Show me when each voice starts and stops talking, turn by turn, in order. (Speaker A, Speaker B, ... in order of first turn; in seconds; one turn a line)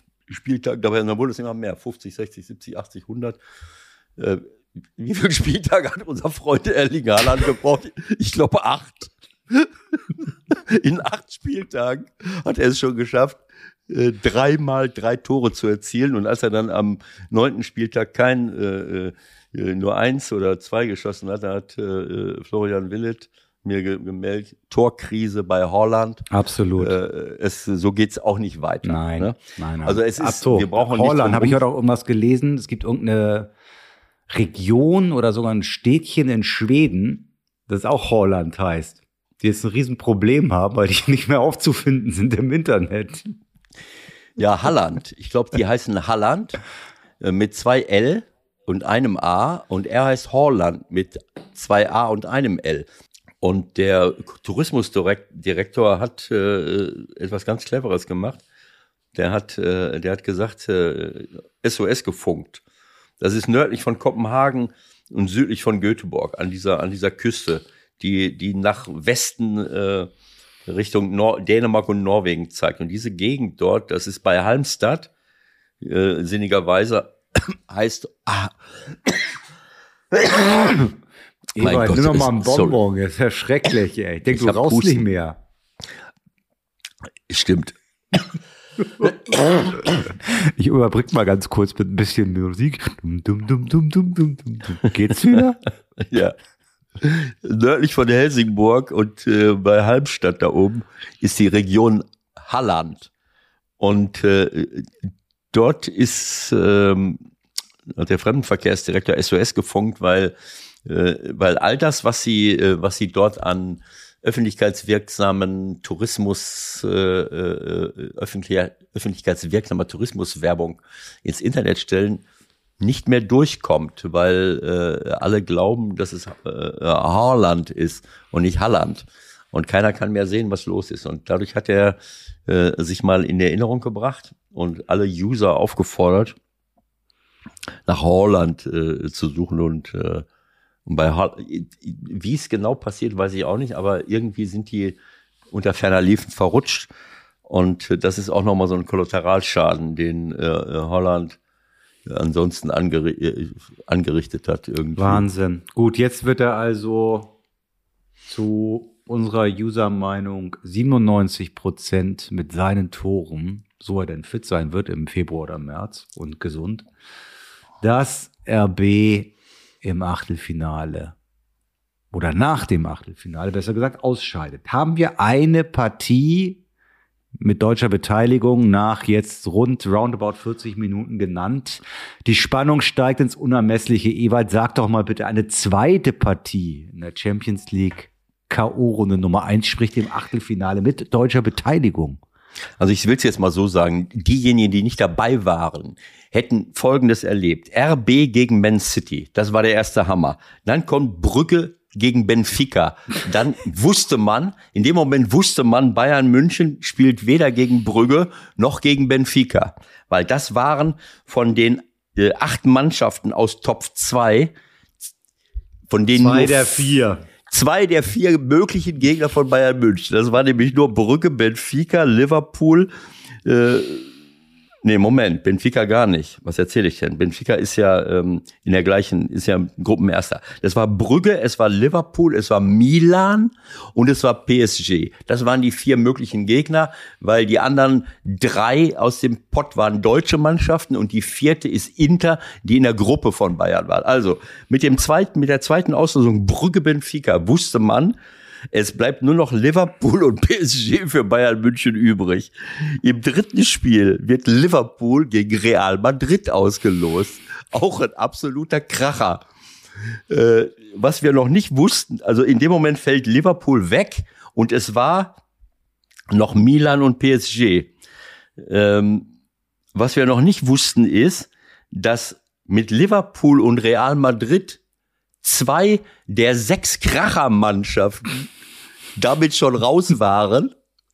Speaker A: 0.3-3.4
Speaker A: 4.2-26.3
Speaker B: 26.3-27.0
Speaker A: 26.8-31.6
Speaker B: 28.8-33.5
Speaker B: 34.3-43.3
Speaker A: 44.4-46.6
Speaker A: 47.2-52.9
Speaker A: 53.4-58.4
Speaker A: 59.1-62.6
Speaker A: 63.2-70.1
Speaker A: 70.7-75.1
Speaker A: 75.8-79.2
Speaker B: 80.5-80.9
Speaker B: 81.5-85.4
Speaker A: 81.6-82.8
Speaker A: 84.3-85.1
Speaker A: 87.3-88.2
Speaker B: 89.0-95.7
Speaker A: 96.0-96.4
Speaker A: 97.0-103.1
Speaker A: 103.8-104.9
Speaker A: 105.5-107.2
Speaker A: 107.9-122.2
Speaker A: 122.8-136.4
Speaker A: 137.9-140.3
Speaker A: 140.9-145.0
Speaker A: 145.5-146.9
Speaker A: 147.4-151.4
Speaker A: 152.1-155.2
Speaker B: 155.0-157.4
Speaker B: 158.3-166.9
Speaker B: 167.8-171.2
Speaker B: 172.1-176.6
Speaker B: 177.4-192.2
Speaker A: 192.8-214.5
Speaker A: 215.9-217.0
Speaker B: 216.2-217.2
Speaker A: 217.5-222.9
Speaker A: 223.4-224.1
Speaker A: 224.8-248.2
Speaker A: 248.7-259.4
Speaker A: 260.3-265.4
Speaker A: 266.3-267.9
Speaker A: 268.6-269.3
Speaker A: 269.9-274.8
Speaker A: 275.4-278.4
Speaker A: 279.1-280.7